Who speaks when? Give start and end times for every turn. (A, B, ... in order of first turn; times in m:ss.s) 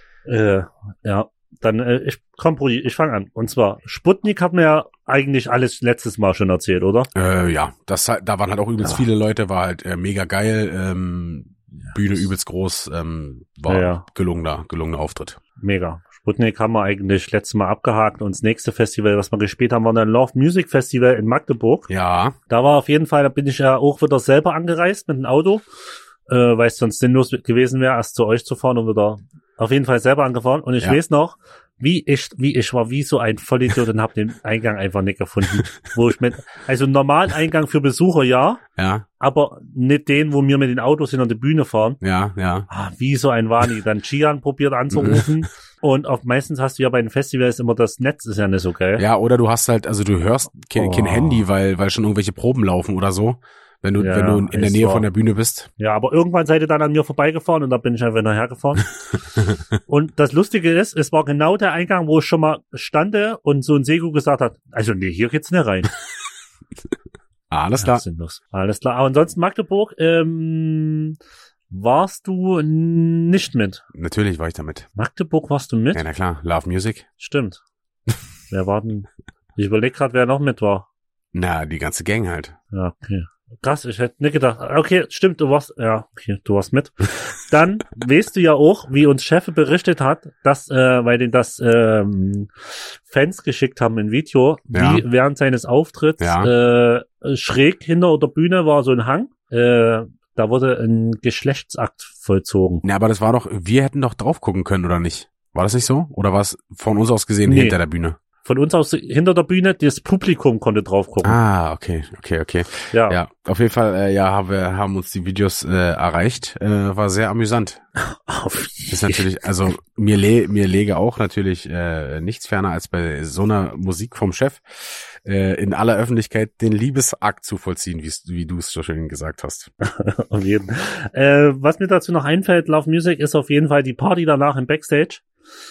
0:00.2-0:07.1 A
0:07.1-0:15.4 B
0:13.7-0:14.0 A
0:15.6-0:21.9 A
0:21.9-0:22.4 B
0:22.5-0:25.7 A
0:26.3-0:38.6 A
0:35.5-0:35.8 B
0:38.8-0:39.1 B
0:39.2-0:42.0 A
0:42.0-0:42.7 B
0:42.7-0:49.0 A
0:44.9-0:45.3 B
0:49.0-0:55.7 B
0:50.8-0:51.4 A
0:54.0-0:55.1 A
0:55.8-0:58.8 A
0:59.4-0:59.6 B
0:59.9-1:05.9 A
1:07.5-1:08.0 B
1:07.8-1:11.2 A
1:11.7-1:13.8 A
1:13.9-1:14.9 B
1:15.0-1:16.0 A
1:15.9-1:17.1 B
1:17.2-1:17.6 A
1:18.5-1:20.9 A
1:21.3-1:22.6 B
1:22.7-1:42.8 A
1:34.7-1:35.0 B
1:36.2-1:36.5 B
1:42.8-1:48.2 B
1:47.5-1:47.8 A
1:48.4-1:51.4 A
1:51.2-1:57.8 B
1:52.9-1:53.2 A
1:58.0-1:59.2 A
1:58.9-2:09.7 B
2:09.8-2:15.2 A